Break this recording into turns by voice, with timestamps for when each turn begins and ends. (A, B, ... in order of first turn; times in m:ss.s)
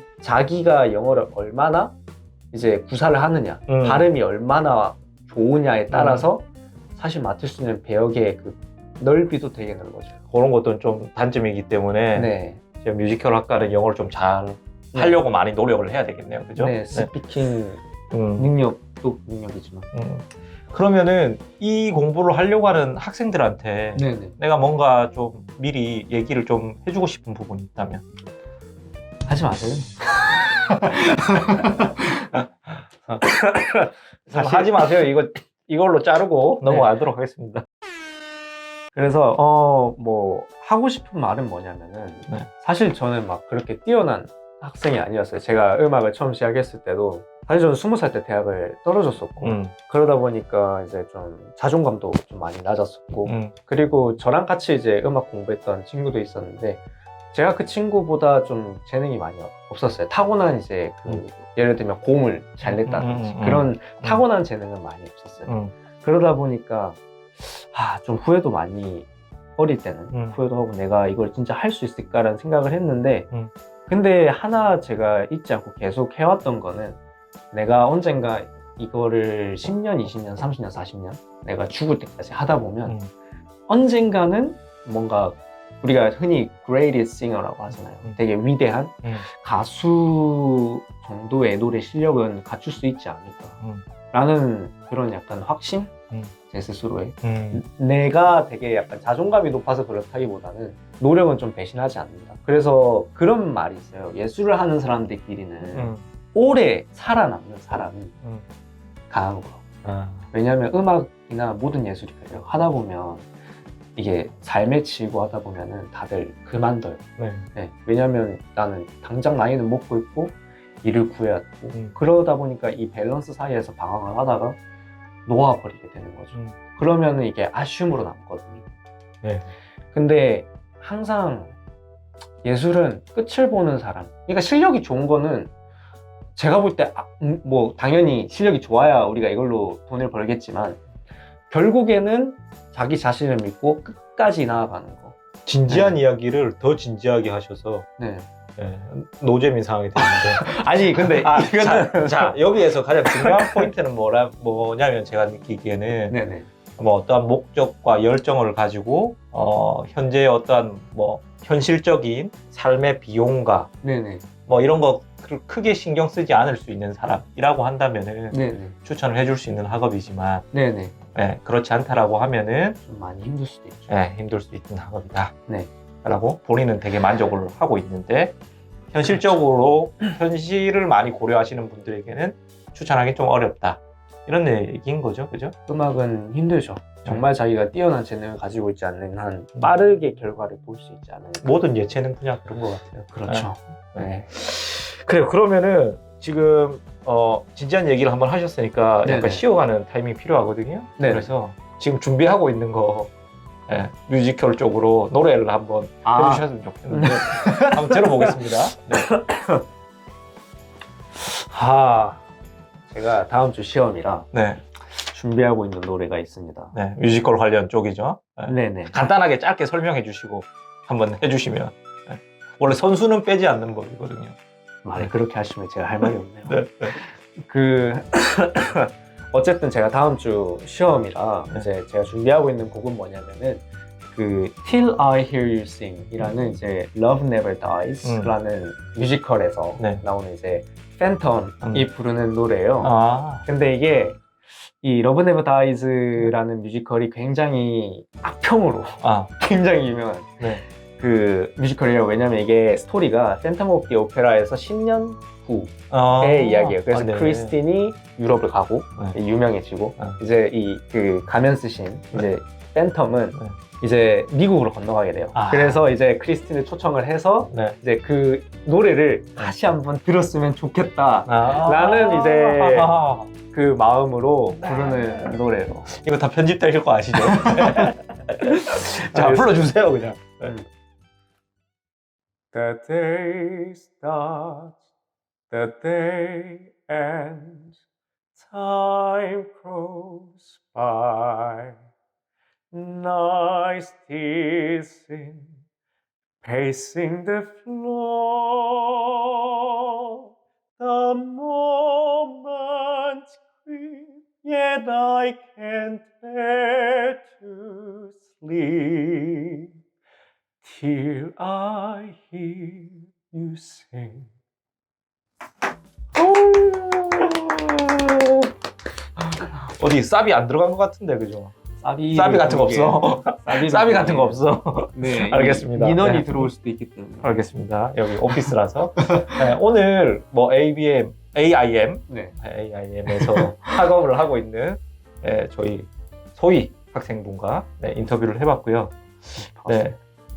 0:00.2-0:01.9 A
0:02.5-0:10.1 A
0:03.7-0:04.1 B
0:05.9-0:06.3 B
0:10.3-0:17.1 B
0:12.1-0:12.6 A
0:14.9-0:15.2 A
0:16.6-0:19.9 A
0:18.1-0:18.5 B
0:19.9-0:28.0 B
0:24.0-0:24.4 A
0:29.3-0:32.3 A
0:32.3-0:33.2 B
0:33.2-0:35.0 A
0:34.3-0:37.6 B
0:36.6-0:36.9 A
0:38.9-1:13.3 A
0:49.4-0:49.7 B
0:53.2-0:53.5 B
1:02.6-1:04.2 B
1:05.4-1:05.7 B
1:10.1-1:10.4 B
1:13.9-1:17.0 A
1:17.5-1:23.0 A
1:23.7-1:33.6 A
1:34.1-1:35.9 A
1:36.5-1:48.1 A
1:37.2-1:37.6 B
1:45.7-1:46.0 B
1:49.1-1:49.6 A
1:49.8-1:50.3 B
1:50.3-1:53.3 A
1:54.0-1:57.0 A
1:57.2-1:57.5 B
1:57.5-2:04.6 A
2:01.7-2:02.0 B
2:05.2-2:08.6 A
2:09.2-2:09.5 B
2:09.9-2:11.5 A
2:12.4-2:15.5 A
2:16.3-2:20.8 A
2:21.5-2:25.2 A
2:25.4-2:27.8 B
2:25.7-2:26.0 A
2:28.0-2:28.3 A
2:28.6-2:36.2 B
2:30.0-2:33.7 A
2:36.1-2:36.5 A
2:36.8-2:43.7 B
2:43.8-2:44.2 A
2:44.5-2:50.5 B
2:48.3-2:48.8 A
2:50.5-2:50.9 A
2:51.1-2:52.8 B
2:52.8-2:53.9 A
2:53.9-2:55.3 B
2:56.0-2:58.4 B
2:58.9-3:05.5 B
3:05.7-3:11.6 A
3:11.4-3:23.1 B
3:13.0-3:14.3 A
3:19.0-3:19.4 A
3:21.0-3:21.3 A
3:23.7-3:29.1 B
3:26.0-3:29.6 A
3:31.1-3:32.2 A
3:32.9-3:34.3 A
3:34.3-3:34.6 B
3:34.8-3:36.8 A
3:36.7-3:44.4 B
3:38.5-3:38.9 A
3:44.8-4:33.0 A
3:46.0-3:47.0 B
3:58.0-3:58.3 B
3:59.8-4:00.0 B
4:01.6-4:01.9 B
4:02.8-4:03.4 B
4:09.0-4:09.3 B
4:15.9-4:17.6 B
4:25.3-4:25.8 B
4:27.5-4:27.8 B
4:31.3-4:33.3 B
4:33.5-4:35.9 A
4:34.6-4:35.4 B
4:35.9-4:40.5 B
4:37.2-4:39.5 A
4:42.5-4:44.8 A
4:45.5-4:47.8 A
4:48.4-4:51.8 A
4:52.7-4:55.6 A
4:56.4-5:00.2 A
5:00.8-5:09.7 A
5:10.6-5:14.3 A
5:16.1-5:18.5 B
5:19.4-5:21.5 B
5:21.8-5:24.4 A
5:22.1-5:26.5 B
5:24.9-5:27.4 A
5:27.2-5:39.0 B
5:29.1-5:29.4 A
5:32.1-5:32.4 A
5:33.1-5:33.7 A
5:39.4-5:40.0 A
5:39.6-5:40.0 B